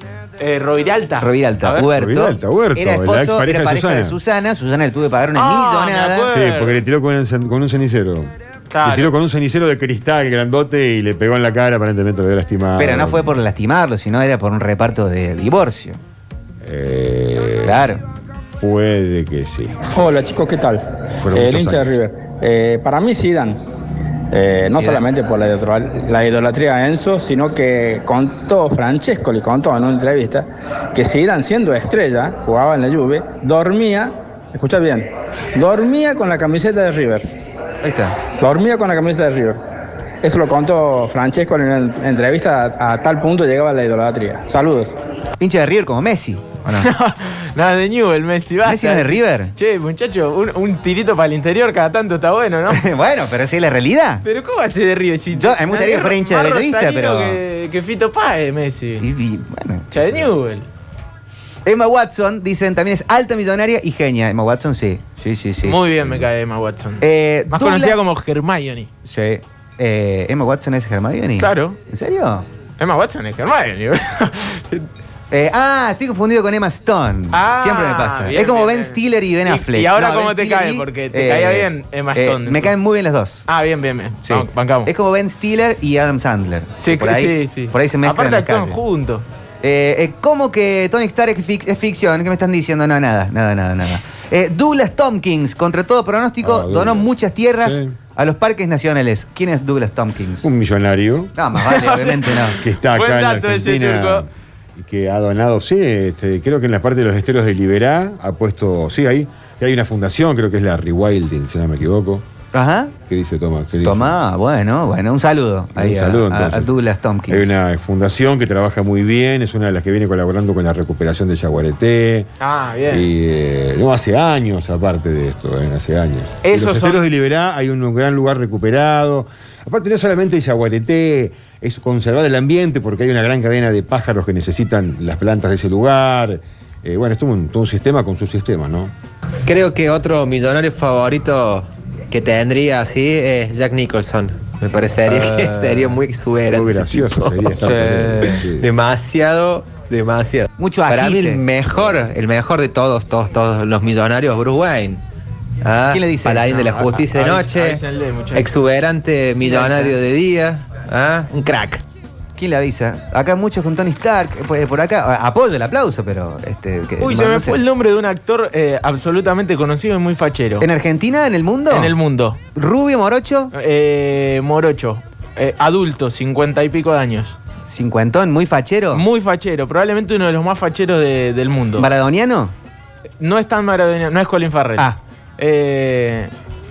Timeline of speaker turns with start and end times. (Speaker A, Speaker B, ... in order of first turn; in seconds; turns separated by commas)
Speaker A: 0.4-1.9, Speaker B: 1.2-6.3, Speaker C: 1.8-4.2, Speaker A: 5.3-6.8, Speaker C: 6.3-13.3, Speaker A: 8.7-9.1, Speaker B: 12.8-16.0, Speaker C: 16.6-18.0, Speaker B: 17.6-18.0, Speaker C: 18.6-19.8, Speaker D: 19.9-23.6, Speaker C: 21.1-22.0, Speaker D: 24.3-37.2, Speaker B: 24.7-25.0, Speaker B: 37.8-38.2, Speaker D: 38.4-39.6, Speaker D: 40.2-44.9, Speaker B: 45.4-46.9, Speaker A: 46.7-52.9, Speaker B: 48.6-49.5, Speaker B: 52.7-54.2, Speaker A: 54.2-59.0, Speaker B: 55.3-57.4, Speaker B: 59.0-59.9, Speaker A: 59.9-60.7, Speaker B: 61.6-65.8, Speaker A: 65.6-68.9, Speaker B: 67.0-68.0, Speaker B: 69.0-72.5, Speaker A: 71.4-71.8, Speaker A: 72.8-74.9, Speaker B: 75.3-83.4, Speaker A: 77.3-82.7, Speaker A: 83.5-84.9, Speaker B: 84.2-88.8, Speaker A: 86.8-89.2, Speaker B: 89.6-100.5, Speaker C: 96.4-97.1, Speaker C: 97.6-98.0, Speaker C: 100.4-101.3, Speaker B: 101.3-102.6, Speaker A: 101.6-104.2, Speaker C: 102.5-112.2, Speaker B: 112.5-112.9, Speaker C: 113.1-114.2, Speaker B: 113.8-117.5, Speaker C: 115.7-116.7, Speaker C: 117.3-122.3, Speaker A: 122.4-123.1, Speaker C: 122.9-138.9, Speaker A: 126.4-127.0, Speaker E: 139.4-155.0, Speaker C: 145.1-145.9, Speaker C: 146.5-148.7, Speaker B: 150.6-151.4, Speaker E: 155.6-157.8, Speaker B: 155.9-156.5, Speaker A: 156.4-158.5, Speaker E: 158.3-161.8, Speaker B: 159.4-159.9, Speaker B: 162.3-167.6, Speaker A: 167.0-170.7, Speaker B: 170.6-171.9, Speaker A: 171.7-172.4, Speaker B: 172.5-173.5, Speaker A: 173.5-177.4, Speaker B: 177.7-179.0, Speaker A: 178.9-181.9, Speaker B: 181.8-182.5, Speaker A: 183.2-186.3